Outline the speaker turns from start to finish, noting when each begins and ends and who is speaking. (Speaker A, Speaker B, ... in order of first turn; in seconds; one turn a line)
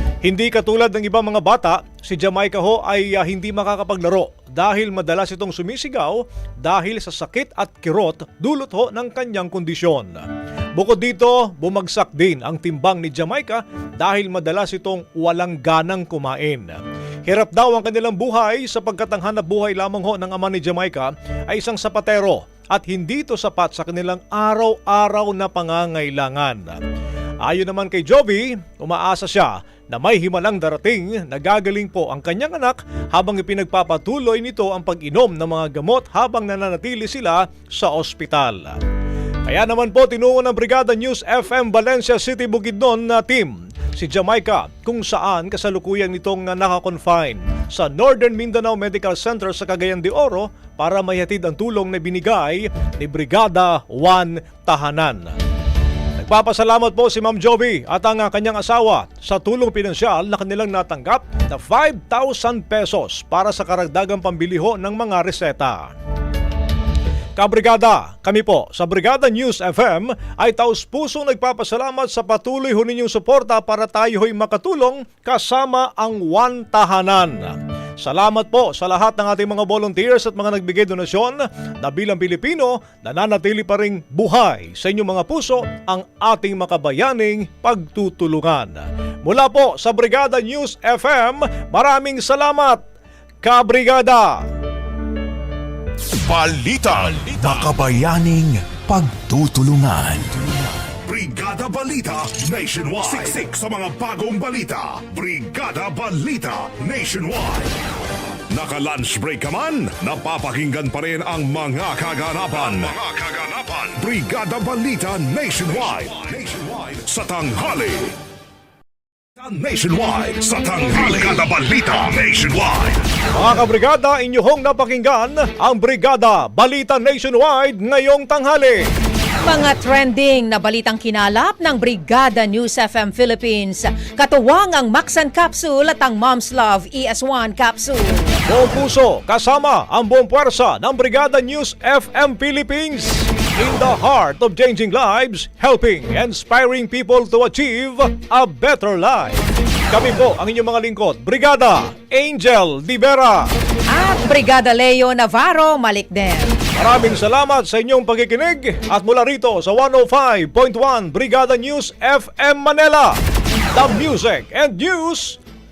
Speaker A: 0.2-10.2
Speaker A: 10.8-26.8
Speaker A: 27.4-38.8
Speaker A: 39.5-55.3
Speaker A: 56.2-65.9
Speaker A: 67.3-92.8
Speaker A: 93.4-94.4
Speaker B: 96.4-100.2
Speaker C: 101.0-107.7
Speaker C: 108.5-118.1
Speaker C: 119.4-123.0
Speaker A: 123.3-128.8
Speaker D: 129.4-138.4
Speaker A: 138.5-149.4
Speaker A: 149.9-153.5
Speaker D: 153.9-156.5
Speaker A: 156.8-163.2
Speaker A: 163.7-165.4